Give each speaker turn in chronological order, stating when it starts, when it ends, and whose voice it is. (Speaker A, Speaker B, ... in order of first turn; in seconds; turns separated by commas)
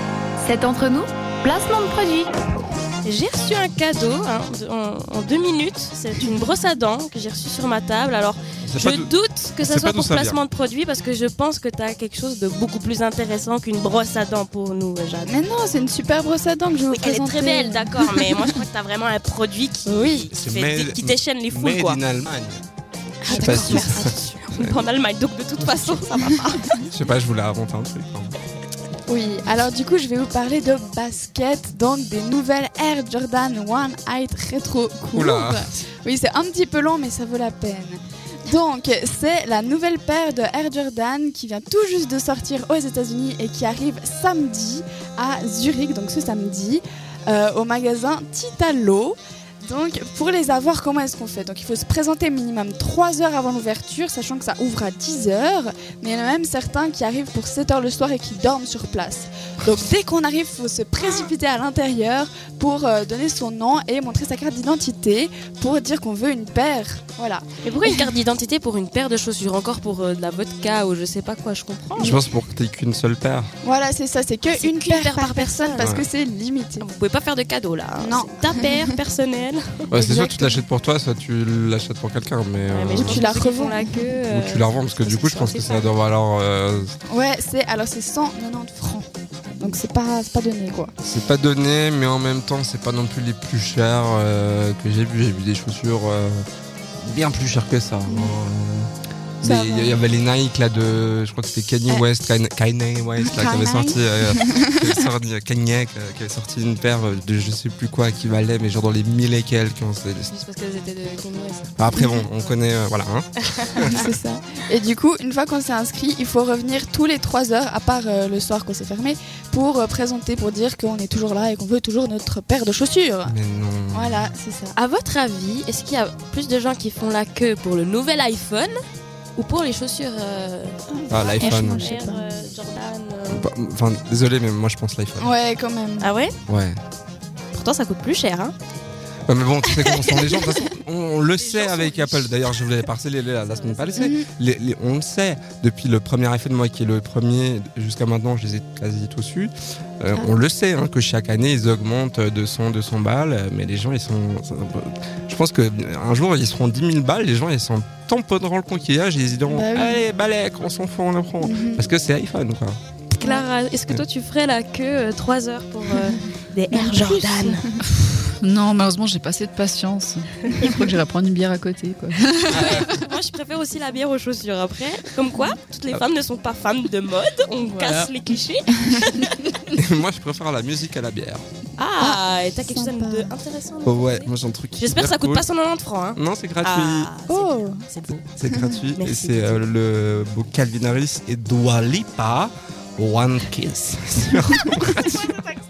Speaker A: 0.4-2.3, Speaker B: 3.0-15.4, Speaker C: 8.6-10.4, Speaker D: 15.2-18.4, Speaker B: 16.9-22.0, Speaker D: 19.9-20.3, Speaker C: 20.3-22.6, Speaker B: 23.2-26.8, Speaker D: 23.3-24.5, Speaker C: 23.3-24.1, Speaker C: 26.9-28.3, Speaker D: 29.1-68.1, Speaker C: 35.1-35.7, Speaker B: 67.6-72.2, Speaker C: 72.0-73.5, Speaker D: 73.6-76.8, Speaker B: 74.5-75.9, Speaker C: 75.8-76.0, Speaker B: 76.8-79.9, Speaker D: 78.0-78.9, Speaker C: 79.9-83.2, Speaker D: 79.9-80.6, Speaker B: 82.7-85.9, Speaker D: 82.9-84.0, Speaker C: 84.2-86.9, Speaker D: 87.1-89.1, Speaker D: 89.6-90.9, Speaker C: 91.0-96.4, Speaker C: 97.0-110.3, Speaker D: 98.0-98.4, Speaker D: 99.4-100.0, Speaker D: 103.2-105.1, Speaker B: 110.3-112.6, Speaker C: 111.8-114.0, Speaker D: 111.9-112.2, Speaker B: 113.4-114.1, Speaker D: 113.9-123.3, Speaker C: 123.2-124.3, Speaker D: 123.9-124.7, Speaker B: 124.7-128.7, Speaker B: 129.3-130.8, Speaker D: 130.9-132.2, Speaker C: 131.1-131.9, Speaker B: 131.3-133.5, Speaker C: 133.3-135.3, Speaker D: 135.2-136.1, Speaker B: 136.0-136.3, Speaker C: 136.5-136.8, Speaker B: 137.5-138.5, Speaker C: 139.3-162.8, Speaker B: 139.6-140.7, Speaker B: 141.4-144.2, Speaker D: 143.9-144.3, Speaker D: 159.5-160.0, Speaker D: 161.4-161.9, Speaker B: 163.1-167.7, Speaker D: 163.2-163.4, Speaker D: 166.7-167.6, Speaker E: 167.9-173.0, Speaker B: 172.5-179.7, Speaker C: 172.5-172.8, Speaker E: 177.8-178.1, Speaker C: 179.7-181.4, Speaker B: 181.8-188.3, Speaker D: 182.0-183.3, Speaker C: 183.8-185.4, Speaker C: 186.1-187.1, Speaker D: 187.3-187.8, Speaker C: 188.4-195.4, Speaker B: 188.9-189.7